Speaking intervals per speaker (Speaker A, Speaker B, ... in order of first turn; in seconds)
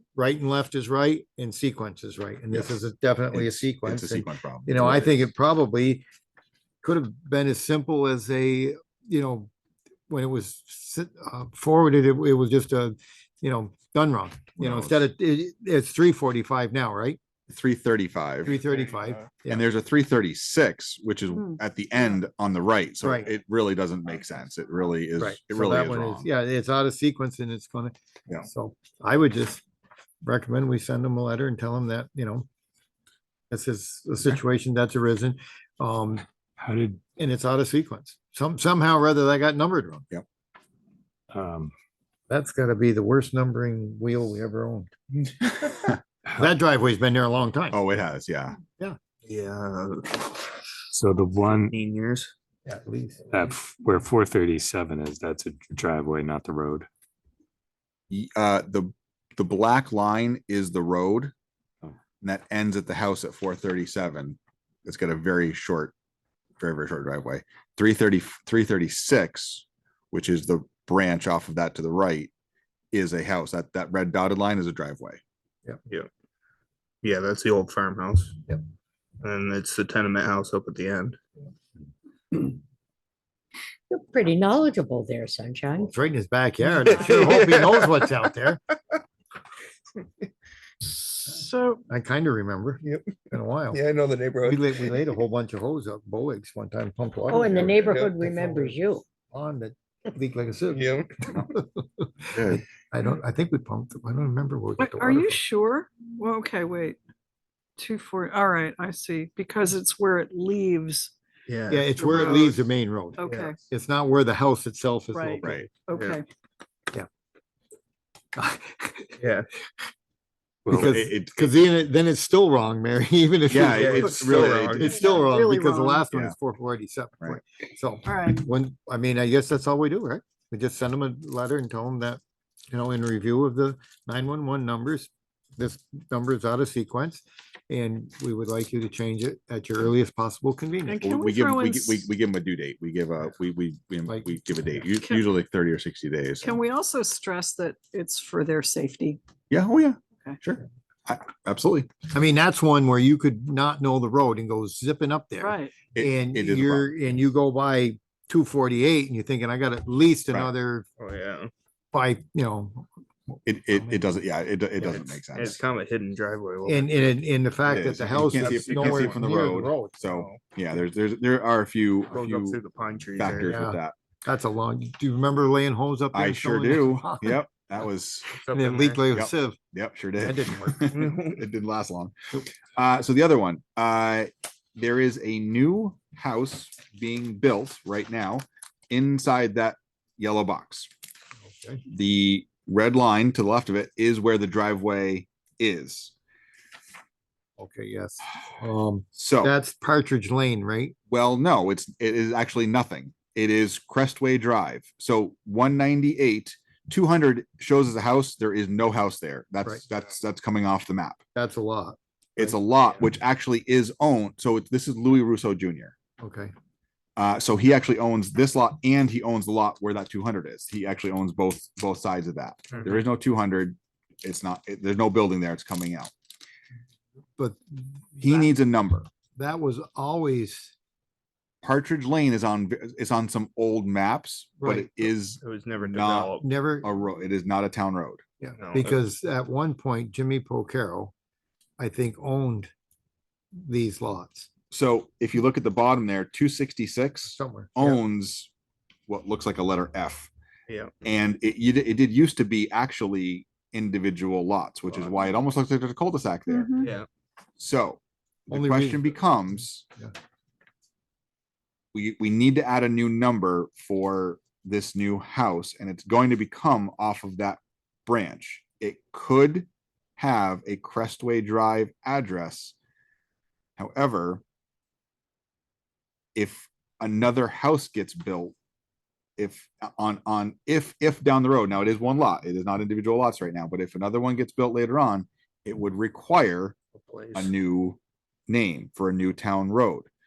Speaker A: 0.2-6.0, 6.8-9.5, 10.1-17.2, 18.4-19.7, 23.0-23.3, 25.2-29.6, 30.2-32.5, 33.5-36.2, 37.2-40.1, 42.3-44.9, 46.4-47.8, 52.7-53.4, 85.8-88.6, 91.9-93.8, 94.4-105.4, 111.7-115.7, 118.3-119.2, 120.7-141.0, 144.1-144.3, 152.1-160.9, 161.9-162.9, 163.7-164.0, 166.7-170.2, 173.3-177.4, 178.5-179.6, 180.2-180.9, 191.4-191.8, 197.6-200.9, 211.3-212.6, 216.2-216.5, 227.4-228.5, 229.3-230.7, 234.6-235.1, 236.4-236.9, 238.4-241.1, 241.8-242.7, 243.6-244.5, 247.3-248.0, 258.5-260.1
Speaker B: 2.5-5.3, 14.6-15.1, 17.5-18.6, 19.5-26.3, 45.6-46.0, 47.7-48.6, 58.1-61.3, 62.2-65.9, 66.6-72.3, 72.9-75.2, 102.3-102.6, 115.4-115.7, 120.7-121.6, 123.5-125.2, 141.0-146.6, 149.5-151.9, 155.9-157.1, 163.5-165.6, 167.7-173.9, 176.1-178.3, 179.1-190.9, 191.9-196.1, 199.1-199.5, 201.1-211.2, 212.4-215.9, 217.2-226.1, 228.2-229.1, 231.6-238.2, 244.7-248.5, 249.1-250.3, 251.0-256.9, 257.6-259.9, 261.9-272.7, 273.8-274.4, 276.4-278.6, 279.4-286.8, 287.4-290.1
Speaker C: 18.7-19.0, 49.3-50.4, 51.7-52.3, 77.0-78.4, 79.2-81.2, 86.8-88.3, 92.8-95.0, 97.4-98.2, 100.7-101.4, 111.5-112.6, 113.3-113.6, 115.9-116.2, 119.2-119.5, 123.8-125.0, 161.0-161.5, 164.8-167.1, 167.7-169.3, 170.1-170.4, 172.1-173.6, 178.3-179.1, 180.9-181.4, 235.4-236.5, 238.6-239.0, 250.7-251.0, 254.9-255.2, 256.8-257.1, 287.0-287.5
Speaker D: 36.6-37.0, 41.3-41.7, 50.9-51.8, 53.3-56.9
Speaker E: 83.9-85.9, 97.3-99.0
Speaker F: 90.8-91.8, 104.8-107.0, 107.8-111.1, 112.0-112.5, 113.2-113.6, 115.1-116.3, 125.0-126.0, 128.1-128.5, 140.9-142.1, 145.0-145.3, 146.4-149.2, 155.4-155.7, 256.5-256.9